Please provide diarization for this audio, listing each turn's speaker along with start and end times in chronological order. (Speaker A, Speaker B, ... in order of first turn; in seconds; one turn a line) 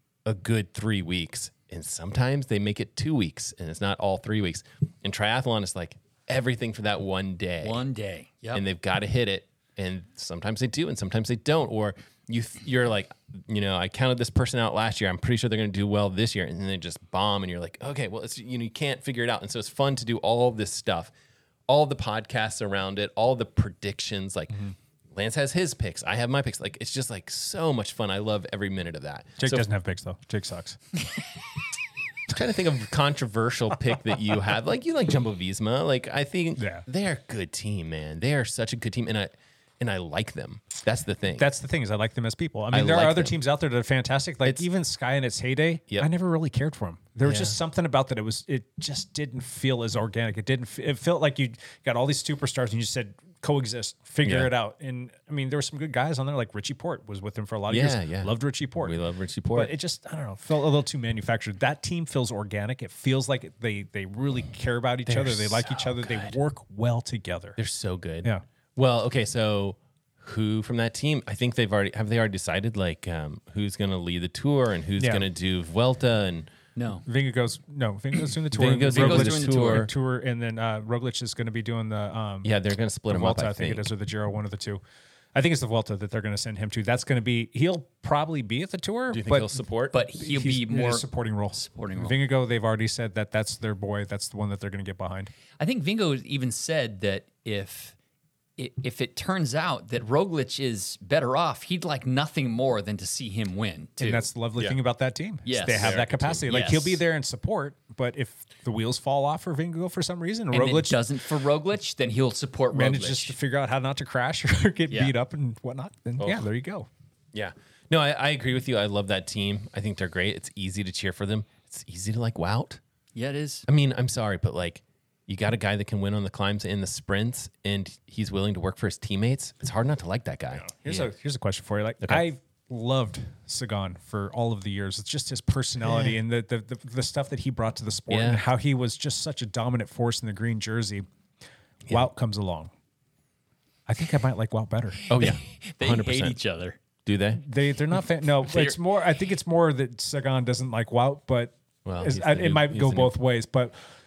Speaker A: 0.2-7.8
Speaker B: 7.6-8.6
Speaker A: 8.5-21.1
Speaker A: 21.7-24.6
Speaker A: 25.1-29.7
Speaker C: 29.4-30.8
Speaker A: 32.3-41.5
Speaker C: 36.6-36.8
Speaker C: 41.4-59.0
Speaker A: 42.7-43.3
Speaker A: 47.2-47.6
Speaker A: 54.2-54.5
Speaker A: 57.7-59.7
Speaker C: 59.5-67.6
Speaker A: 65.1-66.3
Speaker A: 67.6-76.5
Speaker C: 75.0-75.2
Speaker B: 76.8-77.0
Speaker C: 77.0-82.5
Speaker A: 78.5-79.9
Speaker B: 78.9-79.9
Speaker A: 82.4-83.9
Speaker C: 83.1-84.8
Speaker C: 85.3-89.5
Speaker A: 89.1-90.0
Speaker B: 89.9-92.2
Speaker C: 90.1-95.3
Speaker B: 95.6-97.9
Speaker B: 98.6-104.3
Speaker C: 104.0-111.0
Speaker B: 105.5-107.0
Speaker A: 105.7-106.5
Speaker B: 110.5-113.4
Speaker C: 112.7-116.9
Speaker A: 116.2-116.5
Speaker A: 117.3-122.8
Speaker B: 123.1-123.7
Speaker A: 123.7-130.7
Speaker C: 130.5-141.1
Speaker A: 138.1-138.4
Speaker C: 141.9-142.7
Speaker C: 143.9-145.0
Speaker A: 145.1-146.4
Speaker B: 145.1-146.8
Speaker A: 147.0-147.4
Speaker C: 147.3-153.8
Speaker B: 148.5-148.8
Speaker A: 151.8-153.1